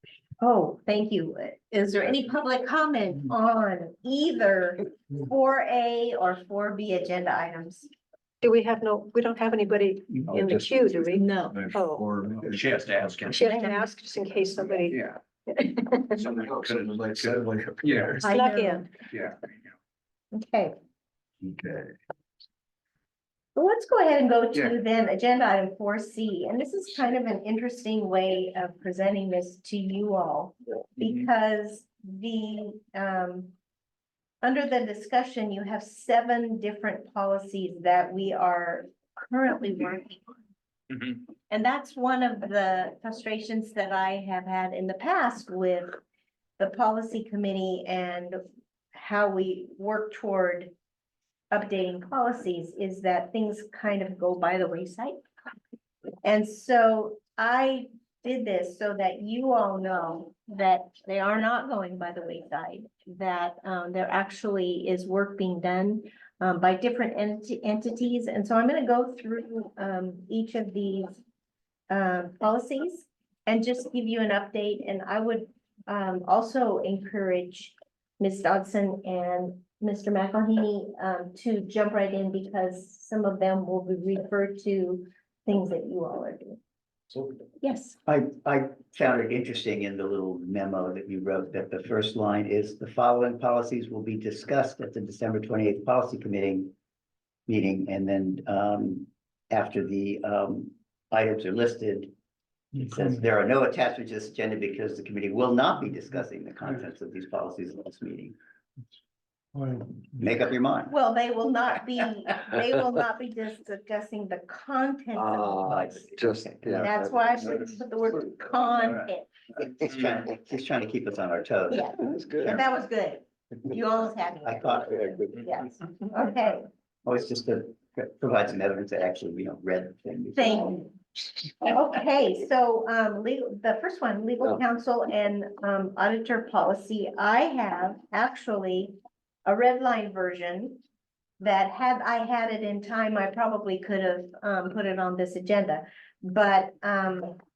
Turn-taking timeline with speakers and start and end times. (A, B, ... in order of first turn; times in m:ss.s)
0:00.4-0:07.9 A
0:08.4-0:12.0 B
0:10.3-0:13.4 C
0:11.1-0:11.7 A
0:12.4-0:13.5 D
0:13.3-0:16.2 B
0:13.4-0:13.9 A
0:14.9-0:15.2 D
0:16.2-0:18.3 D
0:16.3-0:18.3 C
0:18.2-0:18.9 A
0:18.2-0:18.9 B
0:19.1-0:19.6 D
0:20.3-0:20.7 A
0:21.4-0:21.9 C
0:23.6-0:33.5 A
0:34.4-0:40.2 A
0:40.9-0:41.2 D
0:41.5-0:46.0 A
0:46.6-0:48.4 A
0:48.9-0:50.7 A
0:51.5-0:55.2 A
0:56.2-1:11.2 A
1:11.9-1:26.6 A
1:27.6-1:28.0 A
1:28.0-1:36.7 E
1:37.5-1:42.1 E
1:42.7-1:48.3 E
1:50.1-1:50.9 E
1:50.9-1:55.8 A
1:55.2-1:57.5 C
1:55.6-1:56.9 E
1:56.8-1:59.3 A
1:59.6-2:02.6 E
2:01.7-2:06.7 A
2:02.0-2:02.6 C
2:04.4-2:05.3 E
2:07.0-2:10.8 E
2:10.4-2:10.9 A
2:11.6-2:20.8 A
2:21.4-2:27.4 A